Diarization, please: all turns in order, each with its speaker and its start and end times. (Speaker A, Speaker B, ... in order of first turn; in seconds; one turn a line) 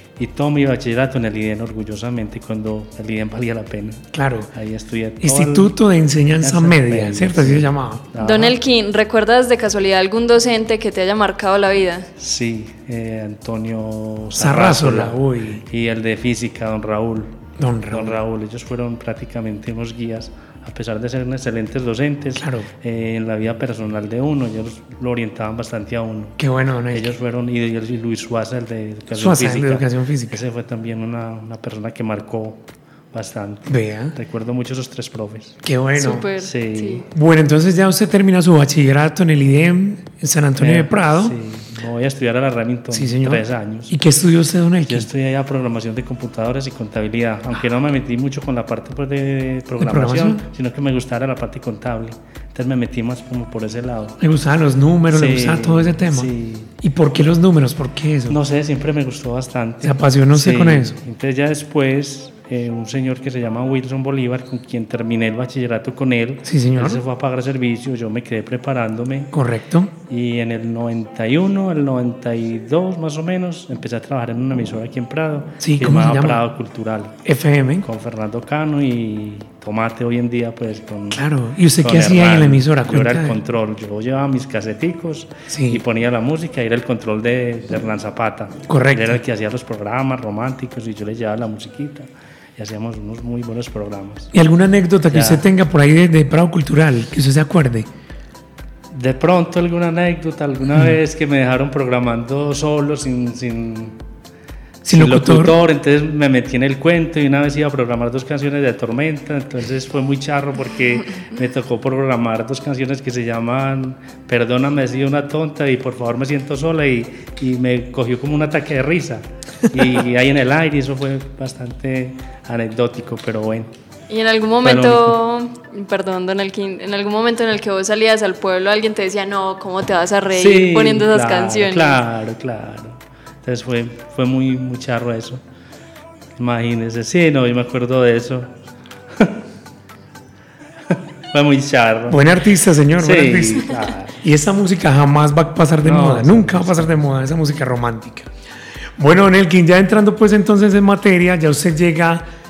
Speaker A: 0.2-5.8
Speaker B: 4.1-4.5
Speaker B: 5.2-8.1
Speaker A: 6.4-8.6
Speaker C: 8.2-12.1
Speaker A: 12.2-26.4
Speaker B: 14.3-15.6
Speaker B: 17.6-18.2
Speaker B: 22.4-22.7
Speaker B: 26.4-27.1
Speaker A: 26.9-35.6
Speaker B: 29.1-30.4
Speaker B: 33.7-34.2
Speaker B: 35.6-36.3
Speaker C: 36.0-37.1
Speaker A: 36.4-37.0
Speaker B: 37.1-41.4
Speaker A: 40.6-44.0
Speaker B: 42.9-45.1
Speaker A: 44.8-54.2
Speaker B: 49.8-50.4
Speaker B: 54.2-58.4
Speaker A: 55.1-56.7
Speaker A: 58.3-69.3
Speaker B: 59.8-61.0
Speaker B: 66.5-67.0
Speaker B: 69.3-69.9
Speaker A: 70.1-77.2
Speaker B: 75.6-76.4
Speaker B: 77.2-77.9
Speaker A: 77.8-81.2
Speaker B: 81.1-83.4
Speaker A: 81.8-94.3
Speaker B: 85.5-85.8
Speaker B: 88.7-89.2
Speaker B: 94.3-97.9
Speaker A: 95.1-95.5
Speaker A: 98.9-104.0
Speaker B: 104.8-105.6
Speaker A: 104.9-123.7
Speaker C: 124.1-132.0
Speaker A: 124.6-125.2
Speaker A: 130.3-135.4
Speaker A: 136.4-138.6
Speaker A: 139.1-139.4
Speaker A: 140.9-142.4
Speaker B: 142.1-148.3
Speaker A: 142.9-144.2
Speaker A: 145.8-147.0
Speaker B: 149.0-152.3